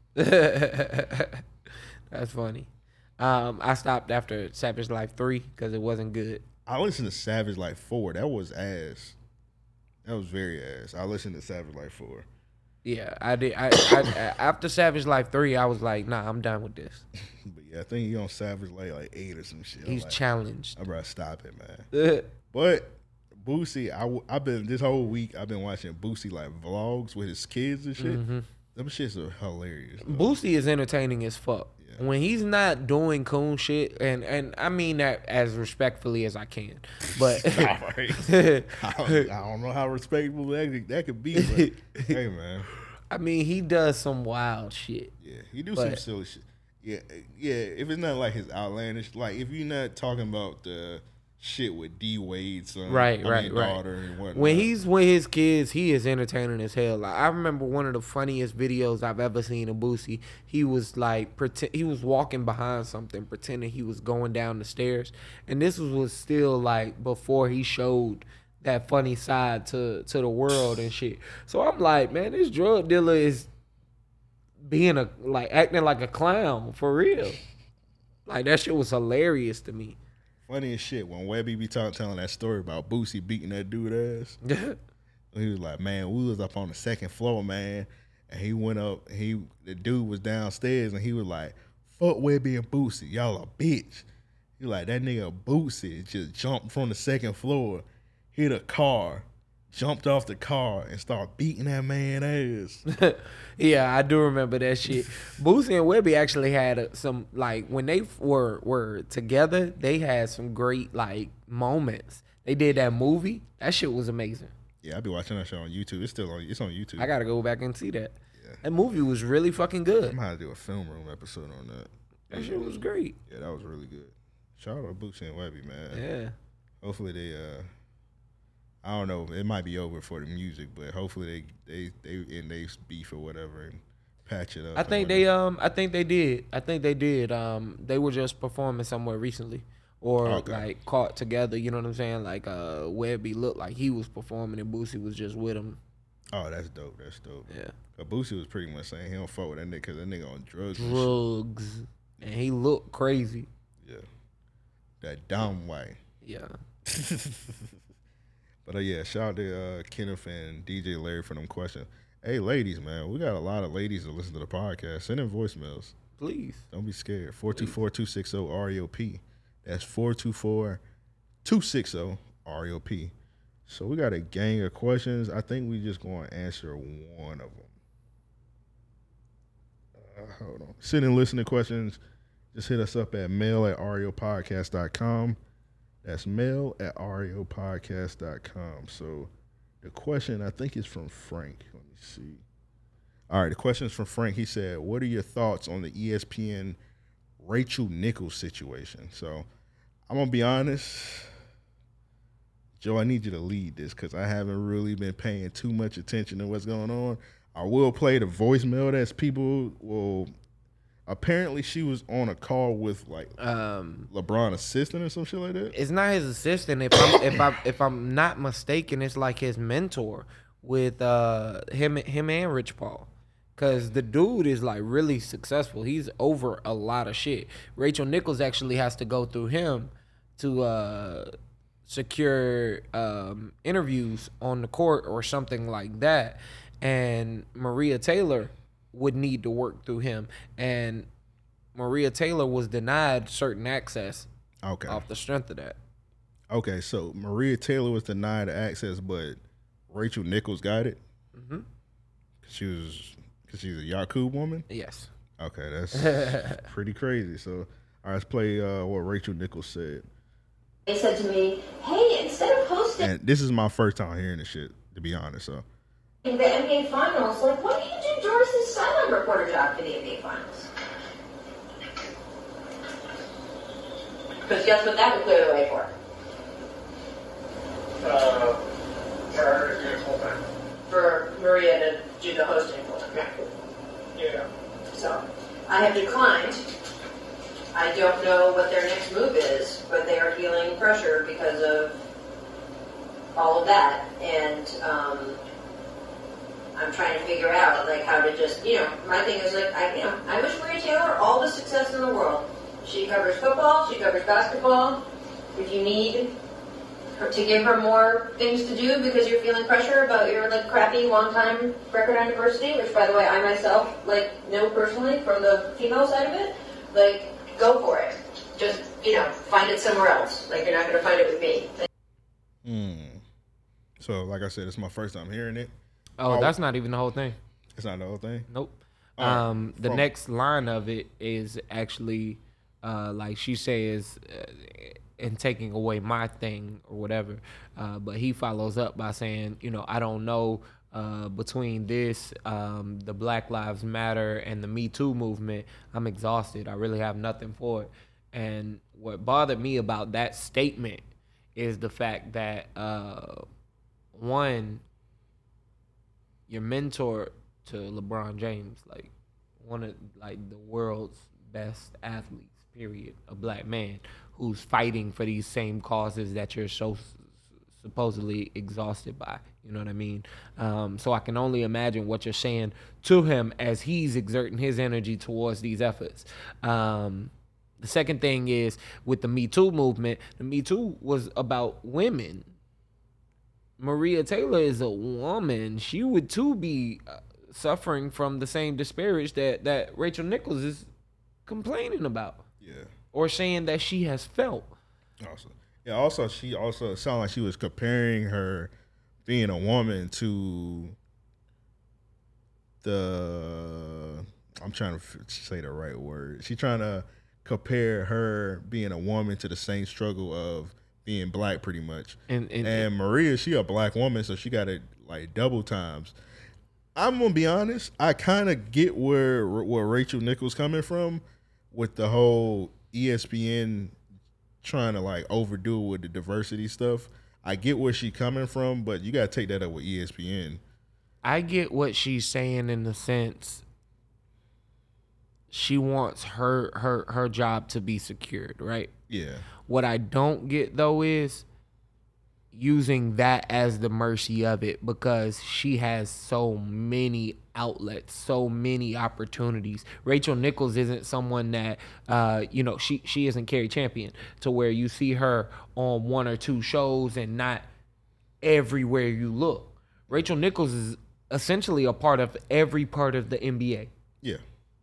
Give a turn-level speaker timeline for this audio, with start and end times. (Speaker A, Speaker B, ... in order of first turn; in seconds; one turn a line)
Speaker A: 0.2-1.4
Speaker A: 2.1-2.7
Speaker A: 3.2-6.4
Speaker B: 6.7-9.2
Speaker B: 10.1-12.3
Speaker A: 12.8-17.1
Speaker B: 17.4-20.2
Speaker A: 19.9-20.8
Speaker B: 20.8-21.9
Speaker A: 21.9-22.3
Speaker B: 22.5-28.2
Speaker A: 28.0-28.4
Speaker B: 28.8-30.4
Speaker A: 30.1-37.7
Speaker B: 37.2-42.7
Speaker A: 38.2-39.3
Speaker A: 41.4-42.1
Speaker A: 43.1-45.1
Speaker B: 45.2-54.7
Speaker A: 45.8-46.0
Speaker A: 52.9-53.8
Speaker A: 54.3-73.5
Speaker A: 74.7-77.4
Speaker A: 78.3-80.0
Speaker B: 80.5-84.4
Speaker A: 84.5-84.8
Speaker B: 85.3-94.1
Speaker B: 94.6-102.8
Speaker A: 102.9-114.5
Speaker B: 114.8-117.1
Speaker A: 117.0-120.2
Speaker B: 118.4-118.6
Speaker B: 120.1-126.0
Speaker A: 122.3-123.2
Speaker A: 125.9-126.3
Speaker B: 126.8-127.7
Speaker B: 128.8-135.3
Speaker A: 134.8-145.8
Speaker B: 140.2-140.7
Speaker B: 146.3-151.2
Speaker A: 147.5-147.8
Speaker A: 150.8-153.5
Speaker B: 153.8-154.1
Speaker B: 155.0-156.0
Speaker A: 156.2-156.5
Speaker B: 156.9-157.7
Speaker B: 158.7-166.0
Speaker A: 166.2-166.7
Speaker B: 166.7-170.8
Speaker B: 171.4-173.1
Speaker B: 173.7-177.7
Speaker B: 179.9-182.0
Speaker B: 182.5-185.4
Speaker B: 186.0-189.3
Speaker B: 189.8-192.4
Speaker B: 193.3-196.8
Speaker B: 197.4-199.5
Speaker B: 200.1-201.3
Speaker B: 202.8-210.3
Speaker B: 211.1-213.4
Speaker A: 213.4-214.1
Speaker B: 214.1-215.8
Speaker A: 215.7-231.3
Speaker A: 231.9-241.1
Speaker A: 241.8-244.3
Speaker B: 244.6-245.1
Speaker A: 244.9-245.8
Speaker B: 246.5-251.0
Speaker A: 251.3-251.7
Speaker B: 252.4-254.7
Speaker A: 254.7-255.1
Speaker B: 255.4-260.1
Speaker A: 256.0-256.6
Speaker C: 260.9-263.1
Speaker B: 263.0-265.6
Speaker C: 266.2-270.7
Speaker C: 274.4-275.9
Speaker C: 280.9-283.3
Speaker C: 284.9-286.6
Speaker C: 287.7-292.0
Speaker C: 293.4-295.4
Speaker C: 296.8-305.0
Speaker C: 305.5-306.3
Speaker C: 307.2-321.9
Speaker B: 322.6-323.2
Speaker B: 324.0-325.7
Speaker A: 326.2-327.4
Speaker B: 326.2-326.6
Speaker B: 327.8-328.5
Speaker A: 328.5-351.0
Speaker B: 329.2-330.1
Speaker A: 351.6-353.4
Speaker A: 354.1-354.8
Speaker A: 356.5-382.5
Speaker A: 383.8-390.9
Speaker A: 391.5-392.4
Speaker B: 392.6-392.9
Speaker A: 393.1-394.7
Speaker B: 395.2-398.7
Speaker B: 399.2-401.0
Speaker B: 402.8-416.1
Speaker A: 412.3-412.9
Speaker B: 417.0-423.9
Speaker B: 424.6-430.6
Speaker A: 431.2-433.6
Speaker A: 435.5-438.9
Speaker B: 439.1-439.5
Speaker A: 439.7-441.5
Speaker A: 442.5-457.6
Speaker A: 458.4-463.9